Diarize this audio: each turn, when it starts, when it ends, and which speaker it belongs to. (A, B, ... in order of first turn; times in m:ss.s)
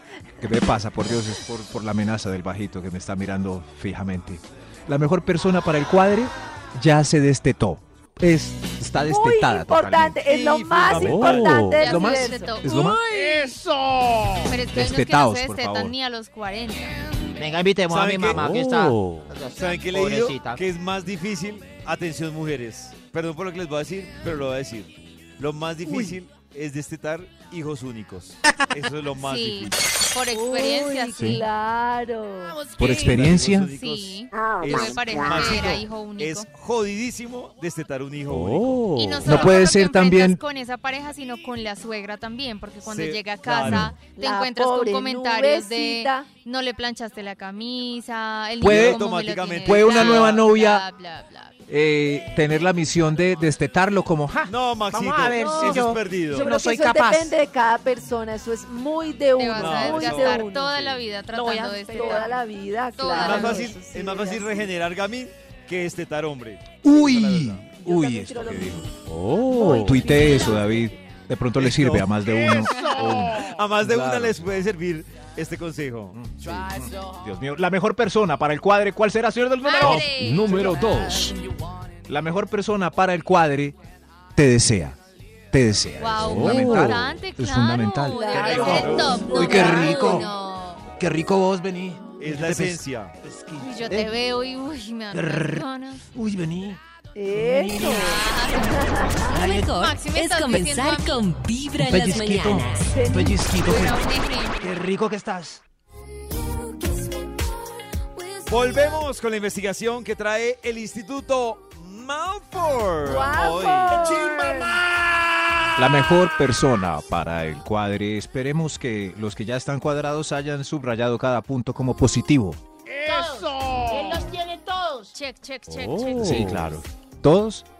0:00.4-0:10.2 A
0:09.0-0:12.5 B
0:10.2-0:11.7 C
0:11.0-0:11.8 D
0:11.2-0:13.0 E
0:11.8-0:13.0 A
0:13.1-0:14.1 F
0:14.4-0:17.0 E
0:14.7-0:15.9 A
0:17.4-0:20.6 F
0:17.9-0:18.5 C
0:18.4-0:19.2 D
0:19.5-0:29.8 C
0:29.2-0:31.5 E
0:30.3-0:32.6 B
0:31.2-0:31.4 A
0:32.8-0:33.7 A
0:32.8-0:39.6 C
0:33.7-0:36.5 E
0:38.3-0:39.2 D
0:38.9-0:51.5 E
0:39.2-0:40.4 A
0:42.8-0:43.9 C
0:43.6-0:43.9 A
0:44.2-0:46.3 B
0:48.6-0:50.5 C
0:48.6-0:49.0 A
0:49.6-0:50.8 A
0:51.7-0:57.3 A
0:54.5-0:56.5 C
0:55.2-0:55.6 F
0:55.4-1:00.7 B
0:59.4-1:02.4 E
0:59.6-1:01.0 C
1:01.3-1:04.7 B
1:01.6-1:02.2 F
1:03.0-1:03.7 E
1:03.1-1:07.6 C
1:06.8-1:08.9 A
1:07.8-1:10.7 B
1:09.1-1:09.9 D
1:09.6-1:14.5 A
1:11.6-1:16.2 C
1:12.7-1:13.0 E
1:16.1-1:20.1 A
1:19.6-1:20.9 E
1:19.8-1:21.4 D
1:22.0-1:23.8 A
1:24.3-1:25.0 A
1:25.5-1:30.3 A
1:26.0-1:30.9 E
1:26.2-1:27.1 D
1:28.1-1:30.2 B
1:28.5-1:29.2 C
1:31.0-1:34.1 A
1:32.2-1:33.1 C
1:33.6-1:36.0 E
1:35.1-1:38.3 A
1:37.2-1:39.3 B
1:37.8-1:41.2 E
1:39.2-1:39.7 A
1:39.2-1:43.0 G
1:41.8-1:44.0 A
1:42.8-1:43.4 B
1:43.5-1:44.7 E
1:44.6-1:45.6 A
1:48.4-1:54.2 C
1:53.0-1:54.7 B
1:55.8-2:02.6 A
2:03.0-2:05.2 F
2:05.1-2:06.5 E
2:05.7-2:06.7 D
2:06.2-2:07.6 A